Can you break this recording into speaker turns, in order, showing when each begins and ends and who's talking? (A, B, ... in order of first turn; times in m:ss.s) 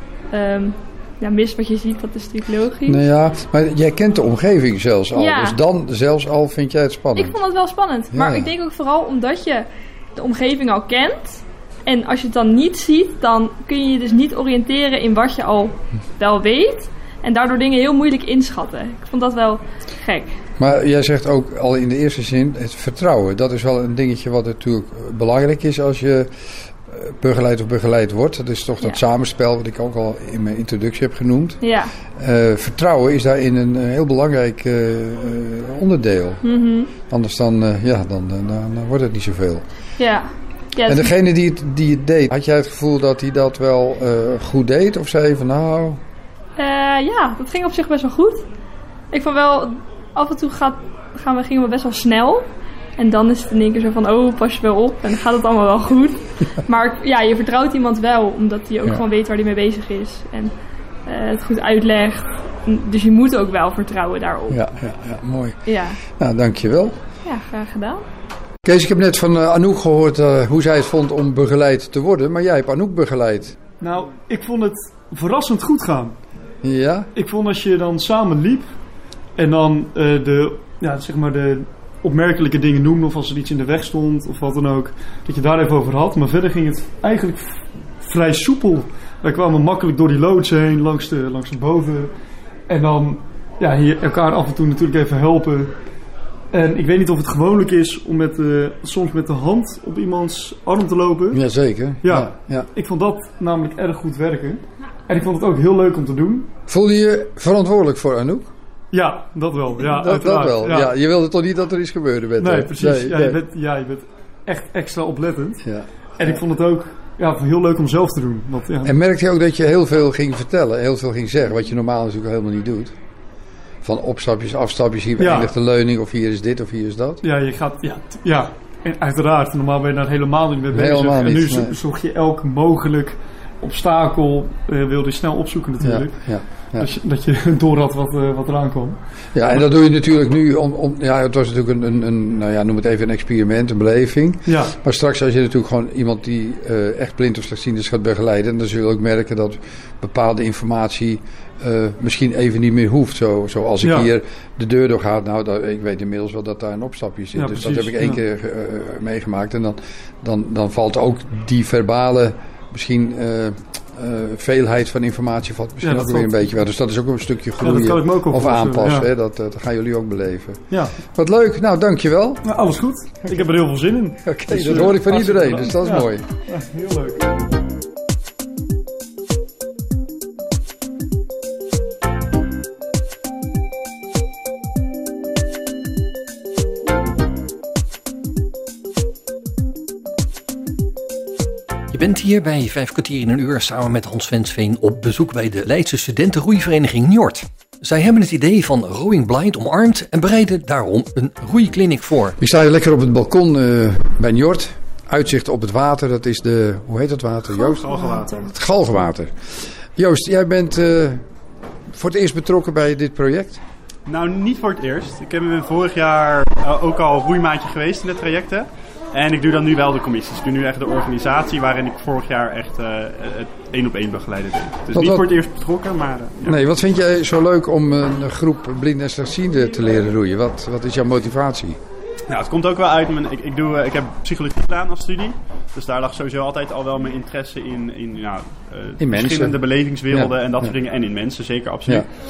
0:00.3-0:03.0 A
0:02.8-0:07.4 B
0:05.1-0:05.6 A
0:07.1-0:20.4 A
0:08.1-0:08.5 B
0:20.6-0:26.3 B
0:26.9-0:31.6 B
0:31.6-0:31.9 A
0:32.2-0:36.4 B
0:36.4-0:36.9 A
0:37.1-0:39.6 B
0:40.0-0:41.1 A
0:40.8-0:46.0 B
0:46.6-0:48.4 A
0:49.1-0:52.4 A
0:53.0-1:04.7 A
1:04.5-1:05.6 B
1:05.6-1:06.0 A
1:06.1-1:06.9 B
1:07.2-1:08.0 A
1:08.6-1:13.6 B
1:13.8-1:16.2 C
1:16.6-1:17.1 B
1:17.1-1:18.7 C
1:19.4-1:32.1 C
1:32.7-1:35.7 C
1:36.5-1:41.4 C
1:41.3-1:42.7 B
1:42.0-1:46.5 C
1:46.7-1:48.5 B
1:48.9-1:50.9 C
1:49.8-1:53.4 B
1:52.4-1:55.6 C
1:55.6-1:56.4 B
1:56.2-1:59.0 C
1:58.8-2:02.9 B
2:03.8-2:07.2 B
2:05.2-2:05.5 C
2:07.2-2:19.6 C
2:10.7-2:11.7 B
2:15.8-2:16.9 B
2:19.3-2:52.4 B
2:24.4-2:24.7 C
2:33.8-2:34.1 C
2:37.3-2:38.2 C
2:45.8-2:46.5 C
2:47.6-2:49.1 C
2:52.4-2:57.2 C
2:54.2-2:56.2 B
3:11.9-3:22.4 D
3:22.4-3:31.2 B
3:27.7-3:28.5 E
3:31.9-3:33.6 B
3:34.0-3:46.6 E
3:44.9-3:45.2 B
3:46.4-3:51.8 B
3:52.3-4:02.1 E
3:59.0-4:00.7 B